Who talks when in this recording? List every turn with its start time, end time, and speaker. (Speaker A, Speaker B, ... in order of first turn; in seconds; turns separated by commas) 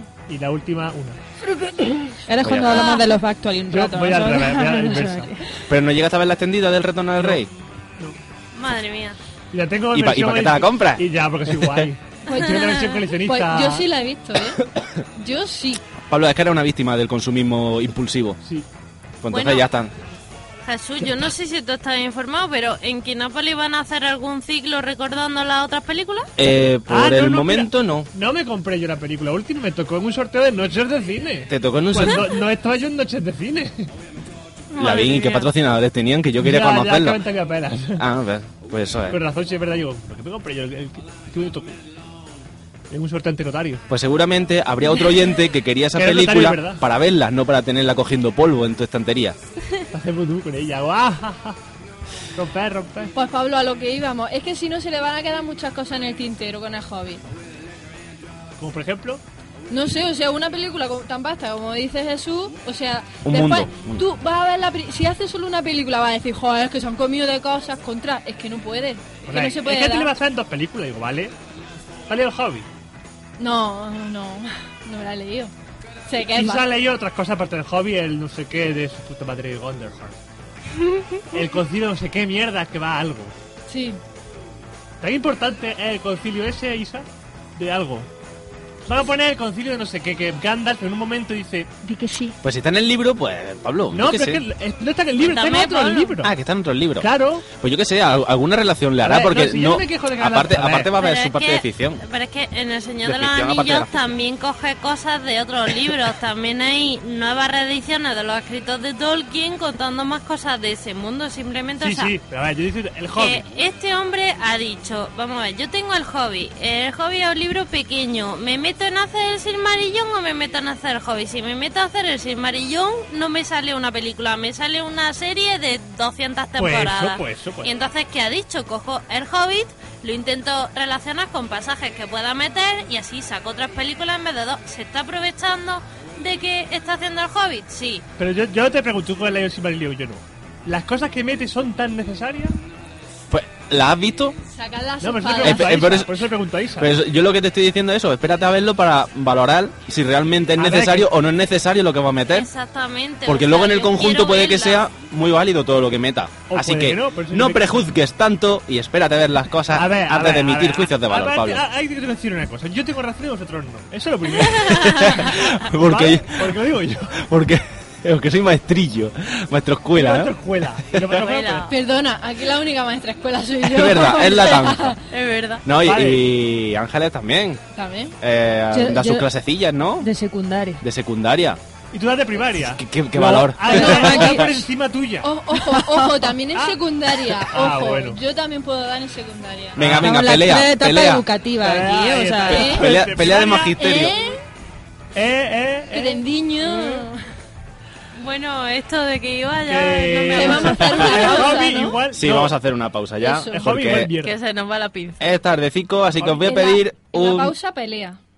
Speaker A: 0.3-1.2, Speaker B: 2.3-5.4, Speaker C: 2.4-2.9, Speaker D: 2.7-3.1, Speaker A: 3.7-5.3, Speaker C: 5.7-7.5, Speaker D: 8.5-9.2, Speaker A: 9.5-13.9, Speaker C: 9.9-11.9, Speaker E: 12.3-14.6, Speaker E: 15.2-15.8, Speaker C: 16.1-18.4, Speaker C: 19.2-19.9, Speaker D: 19.3-19.7, Speaker D: 20.6-26.3, Speaker C: 26.4-28.1, Speaker A: 26.9-33.9, Speaker C: 31.5-32.3, Speaker C: 34.8-37.2, Speaker D: 34.8-35.5, Speaker A: 36.4-38.0, Speaker C: 38.0-39.2, Speaker A: 39.1-41.8, Speaker A: 42.9-43.8, Speaker C: 43.9-49.4, Speaker A: 46.0-46.8, Speaker A: 49.9-51.6, Speaker A: 52.4-53.1, Speaker E: 53.1-57.2, Speaker A: 58.6-59.2, Speaker E: 59.7-70.1, Speaker C: 63.2-64.0, Speaker A: 69.3-71.3, Speaker A: 72.1-72.7, Speaker E: 73.4-75.5, Speaker E: 76.1-76.8, Speaker A: 76.2-80.2, Speaker A: 81.3-83.3, Speaker E: 83.7-84.0, Speaker A: 85.0-88.1, Speaker A: 88.9-91.7, Speaker E: 91.8-92.4, Speaker C: 92.4-94.4, Speaker A: 93.9-96.3, Speaker D: 95.2-96.2, Speaker C: 96.2-102.0, Speaker A: 97.0-97.5, Speaker A: 99.0-100.9, Speaker D: 101.0-112.1, Speaker C: 103.0-104.1, Speaker A: 111.8-113.4, Speaker D: 113.2-138.1, Speaker A: 126.6-127.7, Speaker A: 138.2-142.6, Speaker C: 143.3-144.4, Speaker E: 144.5-146.0, Speaker A: 145.0-146.9, Speaker C: 145.4-152.5, Speaker A: 150.6-151.1, Speaker D: 152.3-154.9, Speaker C: 153.3-161.6, Speaker A: 156.5-157.8, Speaker A: 159.7-167.2, Speaker C: 164.7-170.4, Speaker A: 169.9-171.7, Speaker D: 171.1-171.7, Speaker E: 171.7-175.0, Speaker C: 173.6-175.0, Speaker D: 175.1-175.6, Speaker C: 175.6-177.6, Speaker A: 175.8-176.3, Speaker E: 177.7-178.2, Speaker C: 178.2-180.1, Speaker B: 178.7-179.3, Speaker B: 180.0-180.8, Speaker C: 180.8-181.6, Speaker A: 181.9-185.3, Speaker C: 182.6-184.5, Speaker E: 183.7-184.5, Speaker B: 183.9-184.4, Speaker E: 185.2-189.8, Speaker B: 185.7-186.3, Speaker A: 186.5-188.2, Speaker C: 189.8-191.3, Speaker A: 189.8-190.1, Speaker B: 189.9-192.8, Speaker A: 191.6-193.8, Speaker E: 192.5-192.8, Speaker C: 192.6-194.2, Speaker E: 193.8-194.4, Speaker A: 195.2-196.2, Speaker E: 195.9-197.2, Speaker D: 196.6-197.1, Speaker D: 198.2-201.6, Speaker A: 199.7-202.6, Speaker E: 200.3-202.0, Speaker C: 202.1-204.1, Speaker E: 203.2-203.6, Speaker A: 203.5-204.4, Speaker D: 204.2-205.4, Speaker C: 205.2-207.6, Speaker E: 206.2-208.2